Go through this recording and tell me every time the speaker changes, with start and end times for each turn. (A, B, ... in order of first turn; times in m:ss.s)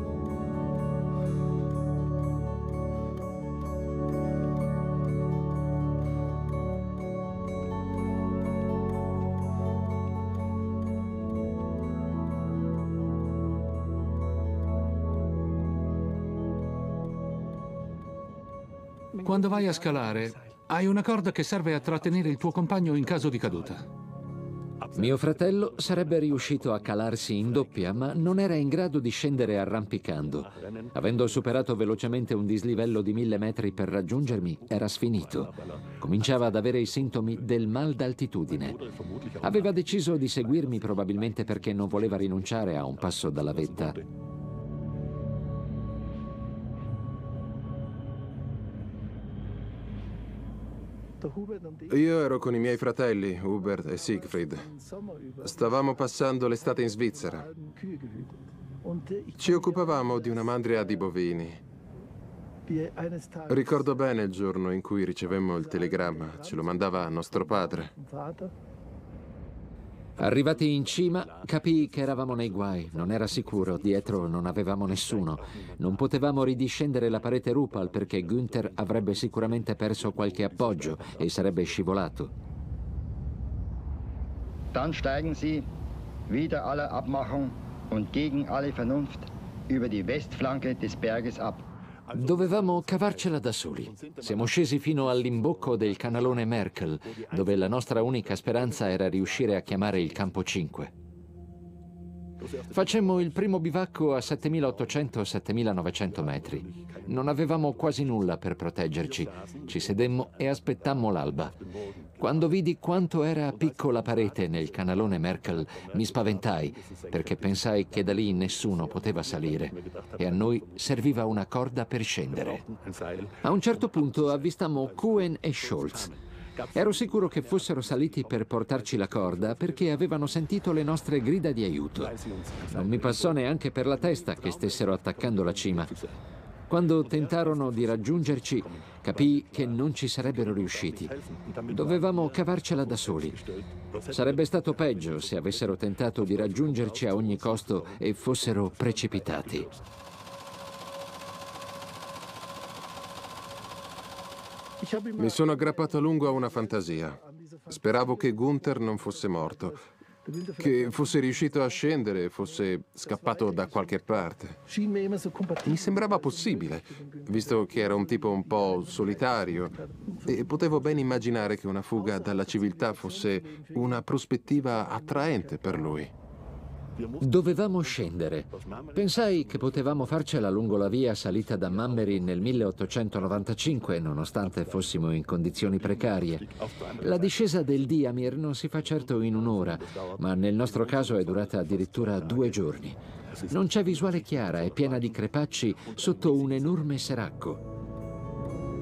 0:19.2-0:23.8 A
0:24.9-0:38.8 B
0:39.4-0:44.0 B
0:51.9-0:54.7 C
0:55.4-0:57.5 C
0:59.4-1:01.6 C
1:03.5-1:07.9 C
1:10.2-1:22.3 B
1:24.7-1:25.7 D
1:26.3-1:31.6 D
1:32.1-1:40.9 B
1:42.7-1:51.5 B
1:52.2-2:02.6 B
2:03.4-2:06.1 B
2:06.7-2:12.2 B
2:12.7-2:15.9 B
2:16.7-2:21.1 B
2:21.7-2:23.4 B
2:24.0-2:29.7 B
2:35.2-2:39.8 C
2:40.6-2:44.6 C
2:45.6-2:56.1 C
2:57.2-3:17.6 B